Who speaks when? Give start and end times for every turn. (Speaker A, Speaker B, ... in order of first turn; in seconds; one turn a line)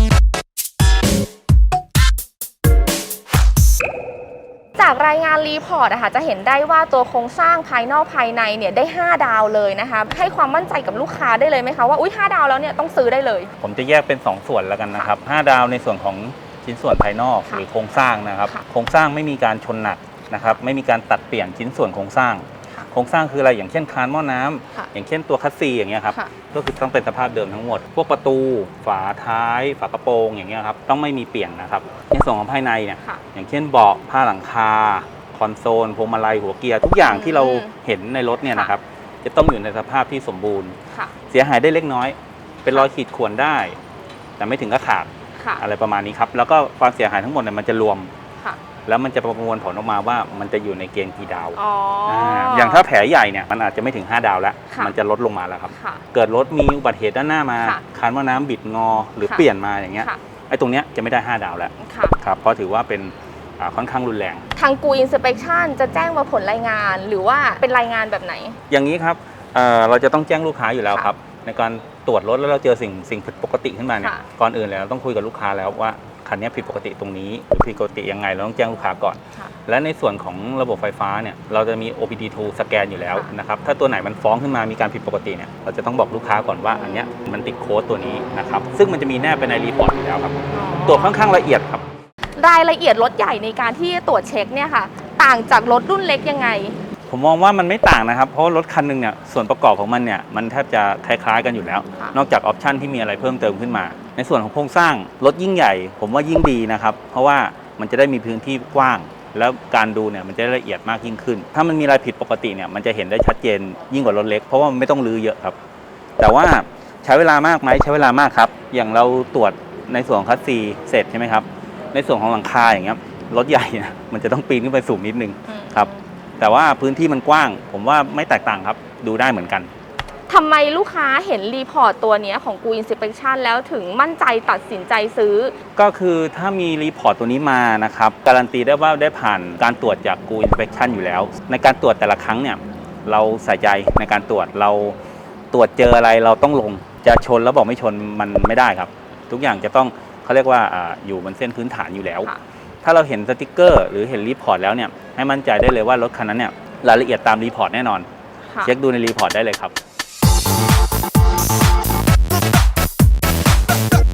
Speaker A: 4.8-13.5
Speaker B: 13.6-40.8
Speaker A: 37.0-37.7
Speaker A: 38.5-38.8
Speaker B: 41.3-43.8
Speaker B: 44.4-48.1
Speaker A: 45.4-45.6
Speaker B: 48.9-64.5
Speaker A: 51.5-52.9
Speaker A: 55.7-56.0
Speaker A: 59.2-60.2
Speaker A: 61.8-62.2
Speaker A: 64.5-68.6
Speaker B: 68.7-91.8
Speaker A: 86.7-87.1
Speaker A: 90.5-91.2
Speaker A: 92.4-96.8
Speaker B: 97.1-115.6
Speaker B: 116.2-129.7
Speaker A: 125.5-126.0
Speaker A: 130.3-135.6
Speaker B: 135.8-145.0
Speaker B: 145.5-152.3
Speaker B: 152.8-158.1
Speaker A: 158.5-158.7
Speaker B: 158.6-159.7